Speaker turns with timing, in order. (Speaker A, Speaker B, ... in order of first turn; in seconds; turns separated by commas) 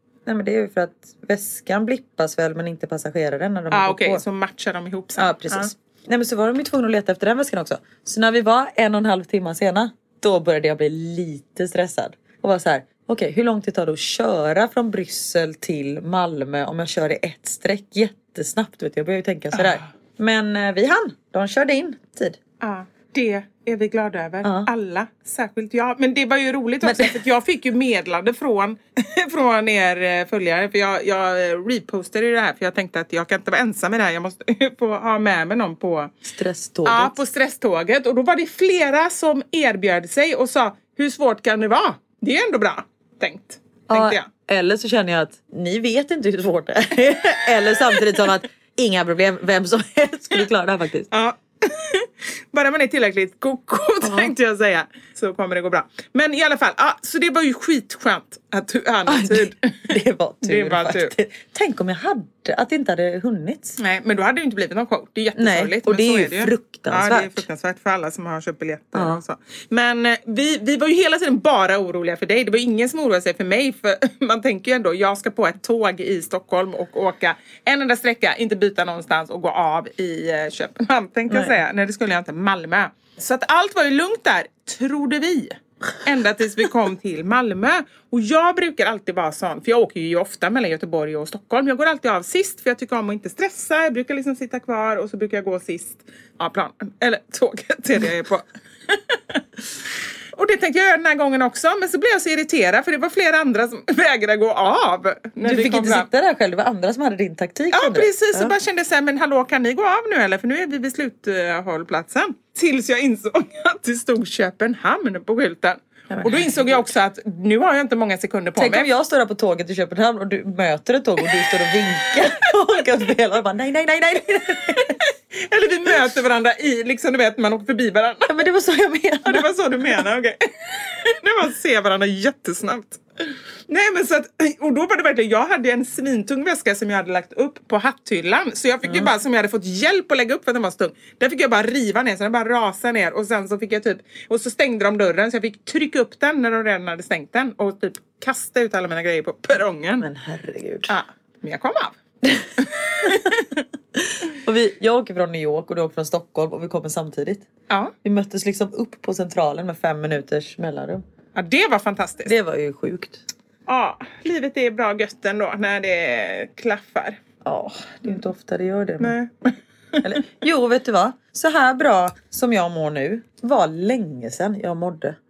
Speaker A: 0.2-4.2, Speaker B: 3.7-5.7, Speaker A: 5.2-22.4, Speaker B: 19.6-19.8, Speaker B: 22.6-36.1, Speaker A: 24.4-24.7, Speaker A: 26.8-27.2, Speaker A: 36.2-37.1, Speaker B: 36.8-44.2, Speaker A: 43.9-51.1, Speaker B: 51.1-61.1, Speaker A: 54.0-54.3, Speaker A: 59.0-63.8, Speaker B: 63.8-99.2, Speaker A: 65.3-67.4, Speaker A: 68.9-69.2, Speaker B: 100.3-106.1, Speaker A: 105.4-108.5, Speaker B: 107.7-118.9, Speaker A: 116.1-116.9, Speaker A: 118.6-125.0, Speaker B: 124.9-128.4, Speaker A: 128.3-130.0, Speaker B: 129.2-133.0, Speaker B: 133.7-150.1, Speaker A: 138.8-139.1, Speaker A: 150.0-150.9, Speaker B: 150.9-152.0, Speaker B: 152.6-153.6, Speaker A: 153.9-157.5, Speaker A: 158.0-161.0, Speaker B: 161.3-162.3, Speaker A: 162.2-163.2, Speaker B: 163.7-167.2, Speaker A: 167.4-169.2, Speaker B: 169.0-170.2, Speaker A: 170.0-175.2